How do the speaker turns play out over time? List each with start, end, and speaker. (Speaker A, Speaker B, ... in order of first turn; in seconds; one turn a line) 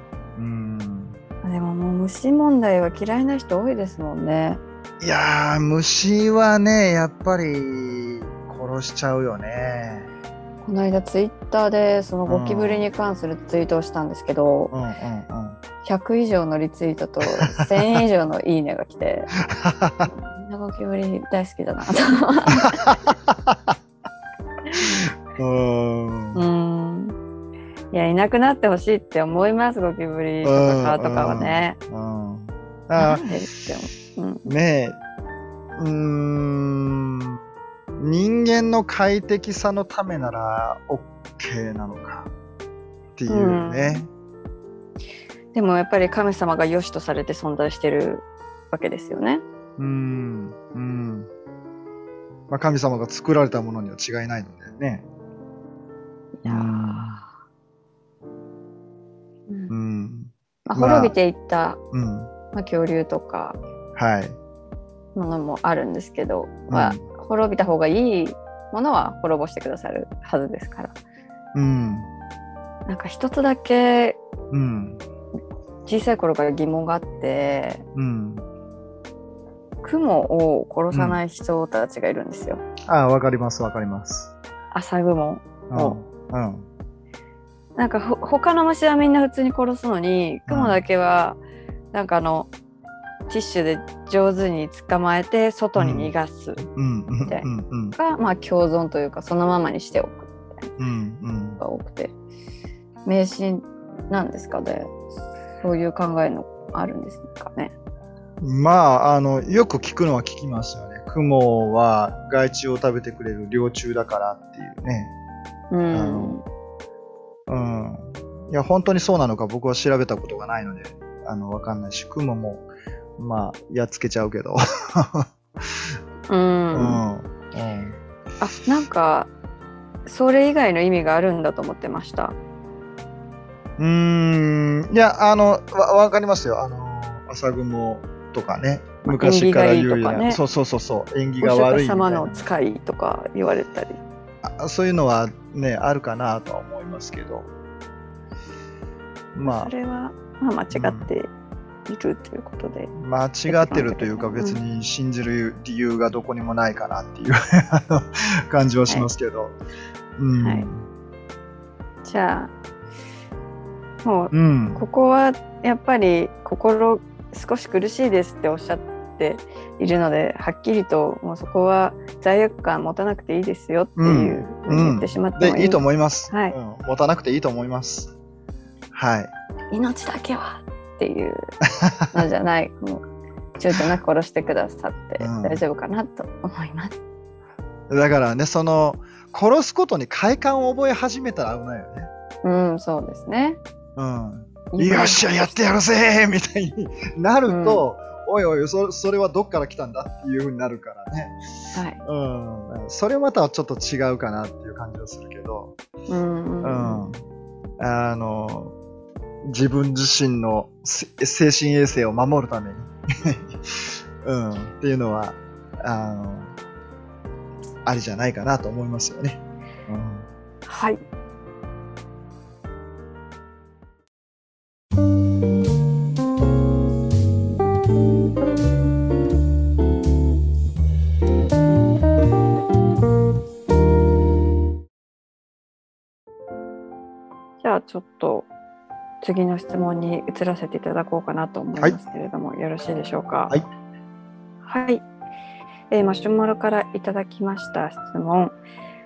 Speaker A: 0.3-1.2
Speaker B: 1.4-4.6
Speaker A: 5.0-10.1
Speaker B: 10.6-14.7
Speaker A: 12.3-12.9
Speaker A: 14.7-15.6
Speaker B: 15.8-19.3
Speaker A: 17.3-18.0
Speaker A: 19.4-20.1
Speaker B: 20.1-22.7
Speaker A: 22.5-23.8
Speaker A: 24.8-26.4
Speaker B: 26.3-27.1
Speaker B: 27.9-31.8
Speaker A: 30.4-33.2
Speaker B: 33.0-34.5
Speaker A: 34.5-35.0
Speaker A: 35.8-37.1
Speaker A: 38.0-42.3
Speaker A: 43.2-44.1
Speaker B: 43.3-44.0
Speaker B: 45.5-49.4
Speaker A: 49.8-51.3
Speaker A: 52.5-55.0
Speaker B: 56.3-57.3
Speaker A: 56.4-57.2
Speaker B: 59.5-59.7
Speaker A: 59.7-61.1
Speaker B: 60.6-61.8
Speaker A: 61.9-62.3
Speaker B: 62.5-63.6
Speaker A: 63.9-64.4
Speaker B: 65.1-70.9
Speaker A: 66.7-67.1
Speaker A: 71.5-72.1
Speaker B: 72.8-74.2
Speaker A: 74.5-75.0
Speaker B: 75.8-77.8
Speaker A: 77.9-78.4
Speaker B: 79.8-82.6
Speaker A: 80.9-81.2
Speaker A: 82.9-84.3
Speaker B: 84.7-86.0
Speaker A: 85.7-86.7
Speaker B: 87.8-91.4
Speaker A: 90.5-90.8
Speaker B: 91.9-92.5
Speaker B: 93.3-96.6
Speaker A: 95.8-96.1
Speaker A: 96.7-98.0
Speaker B: 97.2-100.7
Speaker A: 100.8-101.6
Speaker B: 101.6-102.1
Speaker B: 103.0-107.7
Speaker A: 108.4-115.1
Speaker B: 115.7-116.4
Speaker A: 115.9-116.4
Speaker A: 117.5-122.7
Speaker A: 123.2-125.3
Speaker B: 126.3-127.0
Speaker A: 126.7-128.0
Speaker B: 128.4-129.3
Speaker B: 130.1-132.3
Speaker A: 133.8-142.4
Speaker B: 139.1-140.4
Speaker B: 141.4-144.0
Speaker A: 144.4-147.5
Speaker A: 149.3-149.7
Speaker B: 149.4-151.3
Speaker A: 150.7-151.1
Speaker B: 151.9-152.9
Speaker A: 152.9-159.6
Speaker B: 153.5-154.6
Speaker A: 160.2-160.9
Speaker B: 160.4-160.7
Speaker B: 162.0-162.5
Speaker B: 164.0-176.6
Speaker A: 164.3-164.8
Speaker A: 174.0-178.1
Speaker A: 178.9-179.3
Speaker B: 179.7-181.4
Speaker A: 181.8-182.1
Speaker B: 182.1-183.0
Speaker B: 183.6-187.0
Speaker A: 185.2-185.6
Speaker A: 187.9-192.1
Speaker B: 192.4-193.6
Speaker A: 193.9-201.3
Speaker B: 194.7-195.7
Speaker B: 197.5-197.8
Speaker B: 201.7-202.0
Speaker A: 202.0-205.7
Speaker B: 206.1-207.0
Speaker A: 206.6-207.2
Speaker A: 207.8-208.7
Speaker A: 209.4-216.5
Speaker A: 217.8-220.2
Speaker B: 220.7-221.0
Speaker B: 237.6-238.5
Speaker B: 239.2-243.5
Speaker B: 244.6-245.0
Speaker B: 245.9-248.6